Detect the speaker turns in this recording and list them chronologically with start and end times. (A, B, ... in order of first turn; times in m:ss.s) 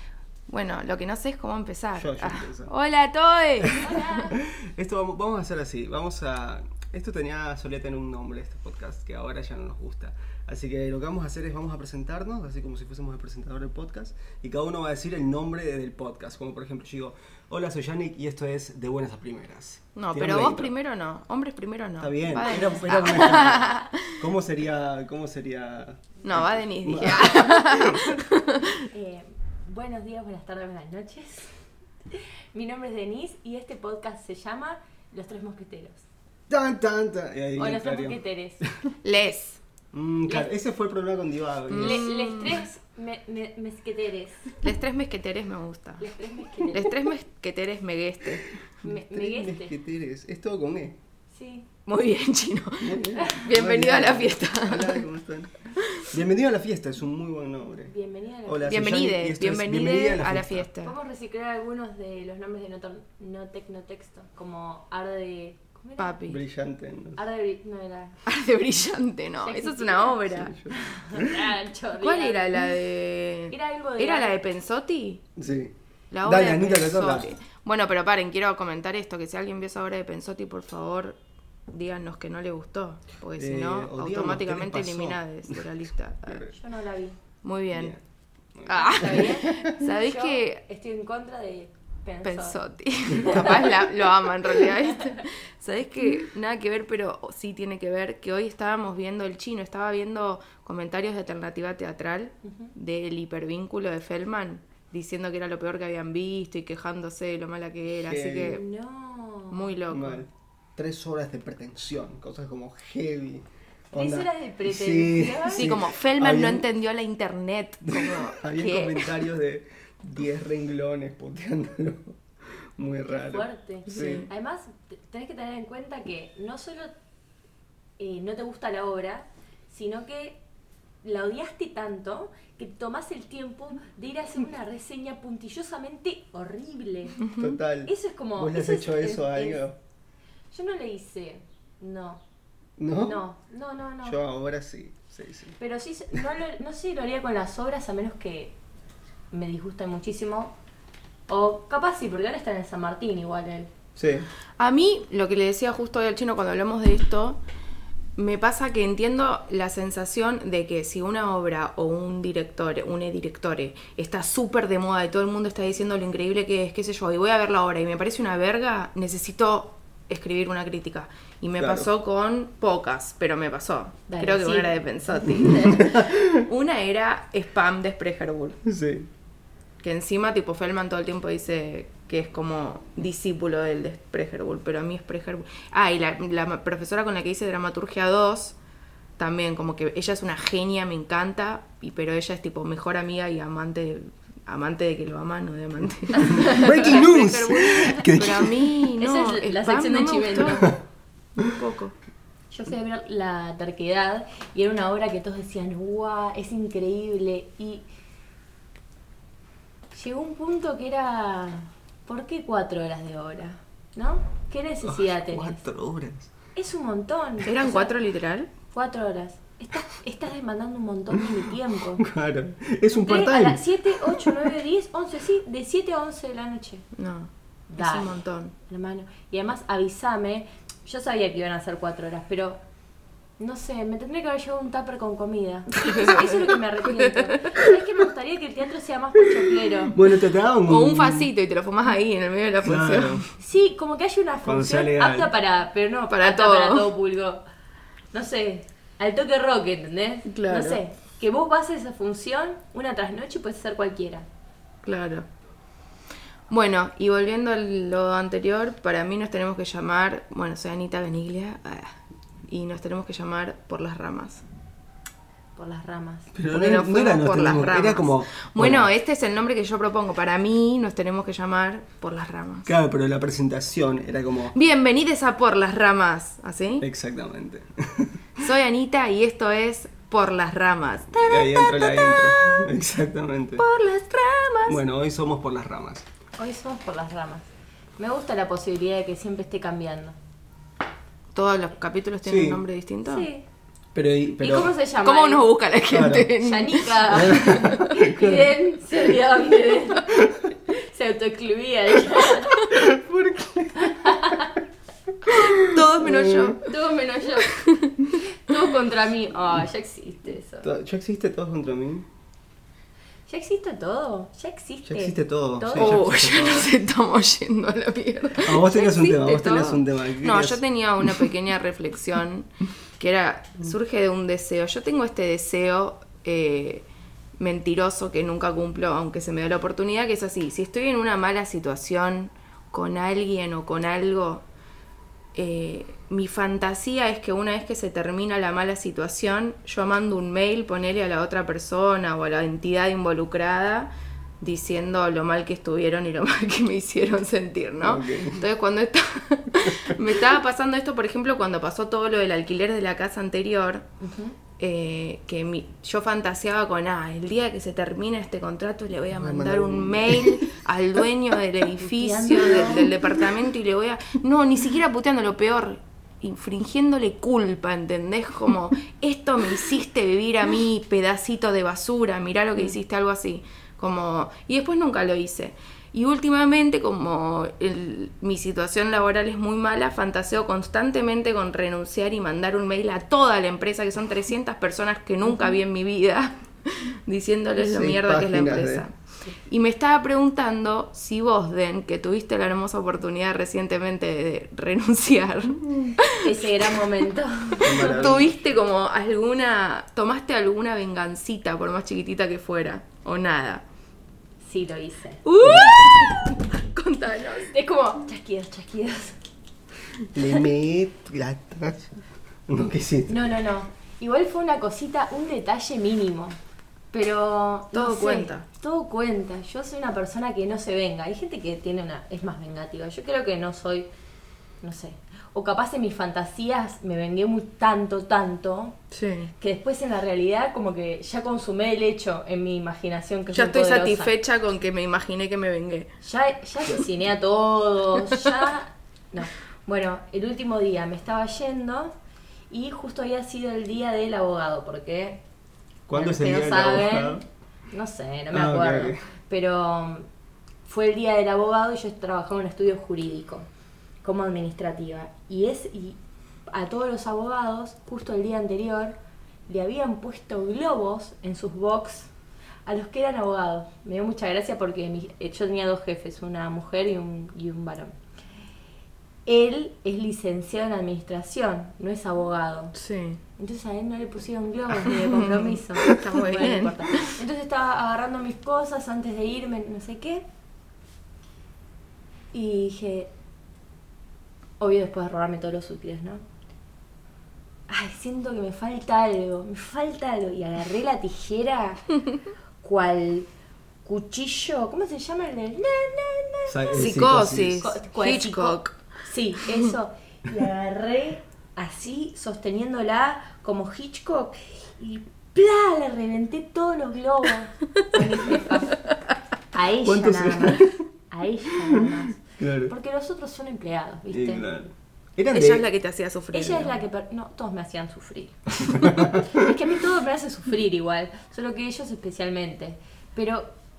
0:00.5-0:04.2 A
0:01.9-0:02.7 B
0:03.6-0:20.7 B
0:03.8-0:04.4 C
0:19.9-0:24.2 A
0:22.0-0:28.2 B
0:22.4-0:23.2 C
0:26.2-0:28.8 A
0:28.9-0:31.5 C
0:32.1-0:36.0 C
0:36.5-0:38.6 B
0:37.6-0:38.6 C
0:39.0-0:39.6 A
0:39.9-0:42.1 B
0:41.7-0:42.6 A
0:41.8-0:44.6 C
0:44.6-0:46.1 A
0:46.0-0:47.0 C
0:46.7-0:48.4 A
0:48.3-0:51.0 B
0:48.8-0:49.7 C
0:51.3-0:51.7 C
0:51.8-0:55.0 A
0:52.8-0:57.9 B
0:53.2-0:53.4 C
0:55.8-0:56.1 A
0:57.8-0:58.9 C
0:58.4-1:00.7 B
0:58.7-1:00.9 A
1:00.8-1:06.2 C
1:06.0-1:06.4 A
1:06.2-1:07.2 B
1:07.2-1:08.2 C
1:08.2-1:10.5 A
1:09.4-1:12.7 C
1:10.3-1:11.5 B
1:12.0-1:15.2 A
1:13.5-1:14.4 C
1:15.4-1:17.3 B
1:16.1-1:21.2 A
1:21.7-1:26.5 A
1:23.4-1:25.6 B
1:26.3-1:26.5 B
1:26.5-1:27.2 C
1:27.4-1:28.0 A
1:27.7-1:28.0 B
1:28.6-1:29.7 B
1:28.7-1:30.6 A
1:28.9-1:32.6 C
1:32.2-1:48.6 A
1:33.1-1:33.9 B
1:33.1-1:33.7 C
1:42.4-1:42.7 C
1:48.0-1:48.6 B
1:48.5-1:49.7 C
1:49.5-1:50.2 A
1:49.9-1:56.7 B
1:53.9-1:55.7 C
1:55.5-1:59.1 A
1:57.8-2:04.3 B
2:03.0-2:06.9 C
2:03.9-2:04.3 A
2:08.0-2:10.4 C
2:11.0-2:17.3 C
2:17.4-2:19.8 B
2:17.8-2:19.6 C
2:20.5-2:22.2 C
2:22.8-2:23.2 B
2:22.9-2:24.2 C
2:24.0-2:25.6 B
2:25.6-2:28.5 C
2:29.3-2:30.5 C
2:31.3-2:33.7 C
2:34.0-2:34.3 B
2:34.6-2:37.4 A
2:38.2-2:58.6 A
2:51.6-2:51.9 B
2:54.1-2:55.6 C
2:55.3-2:56.4 B
2:58.6-2:59.1 B
2:59.8-3:08.6 A
3:09.2-3:20.7 A
3:16.1-3:16.9 C
3:16.2-3:18.8 B
3:19.0-3:20.7 C
3:21.4-3:21.9 A
3:22.5-3:27.8 C
3:29.9-3:35.6 C
3:34.8-3:36.3 B
3:36.5-3:38.0 C
3:37.5-3:38.5 A
3:38.7-3:42.0 C
3:41.2-3:44.5 B
3:42.9-3:46.8 C
3:46.9-3:48.5 A
3:47.7-3:48.1 C
3:48.6-3:52.6 C
3:53.4-3:59.9 C
3:55.8-3:57.4 A
3:59.2-4:01.3 B
4:00.6-4:03.3 A
4:02.6-4:03.2 B
4:03.4-4:07.4 C
4:04.4-4:05.3 B
4:06.1-4:06.9 A
4:08.1-4:14.2 C
4:10.2-4:10.8 A
4:14.8-4:15.3 A
4:16.5-4:21.9 A
4:22.5-4:24.4 A
4:25.6-4:26.3 C
4:26.3-4:28.9 B
4:26.5-4:32.7 A
4:32.6-4:34.5 B
4:34.5-4:36.8 A
4:36.8-4:38.5 B
4:38.4-4:42.6 A
4:41.1-4:43.6 B
4:43.6-4:44.8 A
4:44.6-4:46.0 B
4:46.4-4:47.5 C
4:48.0-4:50.2 C
4:51.3-4:53.3 A
4:52.2-4:52.6 B
4:53.0-4:53.4 C
4:53.9-4:54.7 B
4:54.4-4:55.5 C
4:55.0-4:57.8 A
4:55.9-4:56.3 B
4:56.4-5:02.8 C
4:57.1-4:58.5 B
5:02.7-5:04.4 B
5:03.8-5:04.5 C
5:05.2-5:06.6 B
5:05.4-5:06.6 A
5:06.6-5:07.6 C
5:07.5-5:08.1 A
5:08.2-5:10.7 C
5:10.6-5:12.1 B
5:13.3-5:16.1 C
5:14.8-5:16.7 B
5:15.8-5:22.5 A
5:18.4-5:21.2 B
5:23.0-5:26.8 A
5:27.4-5:34.4 A
5:35.3-5:43.9 A
5:44.4-5:53.8 A
5:47.8-5:48.5 B
5:54.0-5:54.4 C
5:54.6-6:28.9 A
5:59.1-6:00.4 B
6:01.8-6:02.9 C
6:27.6-6:28.8 B
6:29.5-6:36.7 A
6:36.1-6:38.1 C
6:37.6-6:43.6 A
6:37.6-6:38.3 B
6:44.4-6:45.8 C
6:45.2-6:47.5 A
6:45.4-6:45.8 B
6:47.5-6:49.2 C
6:50.1-6:51.9 B
6:52.5-6:53.1 B
6:53.1-6:56.4 C
6:56.9-7:03.9 C
6:57.7-6:58.4 A
7:04.6-7:08.8 C
7:08.9-7:09.3 A
7:09.4-7:14.1 C
7:13.3-7:15.9 A
7:16.0-7:21.9 C
7:22.5-7:25.2 C
7:25.9-7:27.2 B
7:25.9-7:30.0 C
7:28.3-7:29.0 B
7:30.6-7:33.5 C
7:34.0-7:36.0 C
7:36.5-7:38.9 C
7:39.5-7:42.1 C
7:42.6-7:47.9 C
7:49.2-7:52.7 C
7:52.7-7:53.2 A
7:53.4-8:00.2 C
7:54.8-7:57.2 A
8:02.3-8:03.1 C
8:04.6-8:06.2 C
8:07.7-8:11.8 C
8:12.6-8:13.3 C
8:13.8-8:16.9 C
8:16.5-8:17.7 B
8:16.7-8:18.7 A
8:17.6-8:28.8 C
8:29.5-8:34.4 C
8:29.8-8:30.7 B
8:31.6-8:32.7 B
8:34.1-8:35.6 B
8:35.3-8:36.8 A
8:36.3-8:43.5 C
8:38.6-8:39.4 B